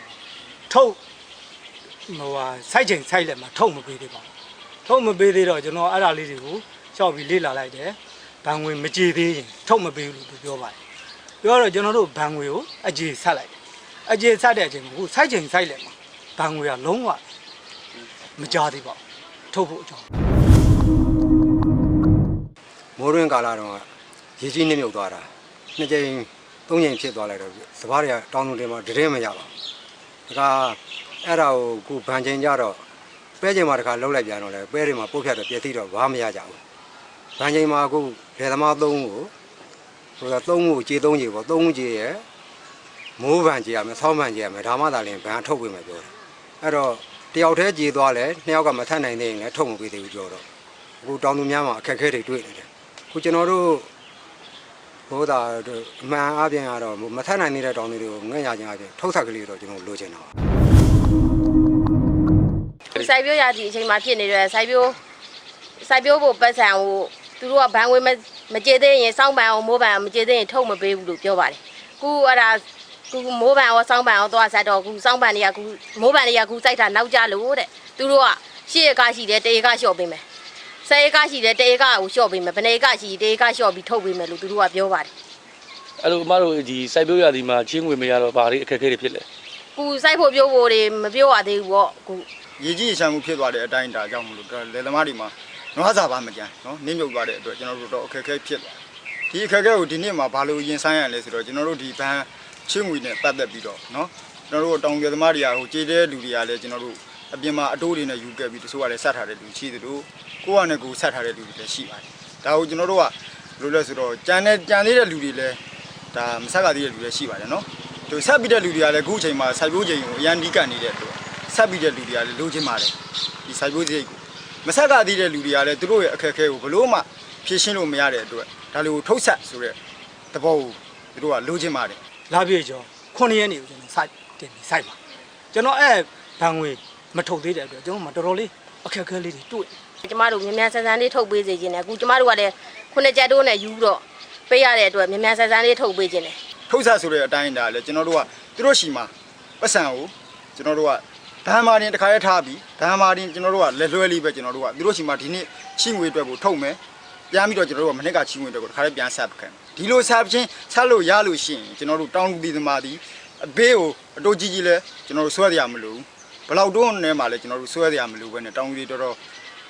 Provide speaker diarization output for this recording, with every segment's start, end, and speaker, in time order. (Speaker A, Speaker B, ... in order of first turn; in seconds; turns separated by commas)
Speaker A: 0.7-1.0, Speaker A: 2.1-4.3, Speaker A: 4.8-10.8, Speaker A: 11.4-13.6, Speaker A: 14.1-17.2, Speaker A: 18.4-19.0, Speaker A: 19.5-20.0, Speaker B: 23.0-23.9, Speaker B: 24.4-29.5, Speaker B: 30.3-32.8, Speaker B: 33.4-36.6, Speaker B: 37.4-39.3, Speaker B: 40.2-42.2, Speaker B: 43.2-50.5, Speaker B: 51.0-53.9, Speaker B: 55.1-60.3, Speaker C: 62.9-65.0, Speaker C: 65.8-80.2, Speaker C: 80.8-85.1, Speaker D: 86.0-89.3, Speaker C: 89.8-92.3, Speaker E: 92.6-115.6, Speaker E: 116.1-123.0, Speaker E: 123.5-129.8, Speaker E: 130.3-132.0, Speaker A: 132.3-135.0, Speaker A: 135.5-139.7, Speaker C: 140.0-146.4, Speaker E: 146.7-156.8, Speaker E: 157.3-169.2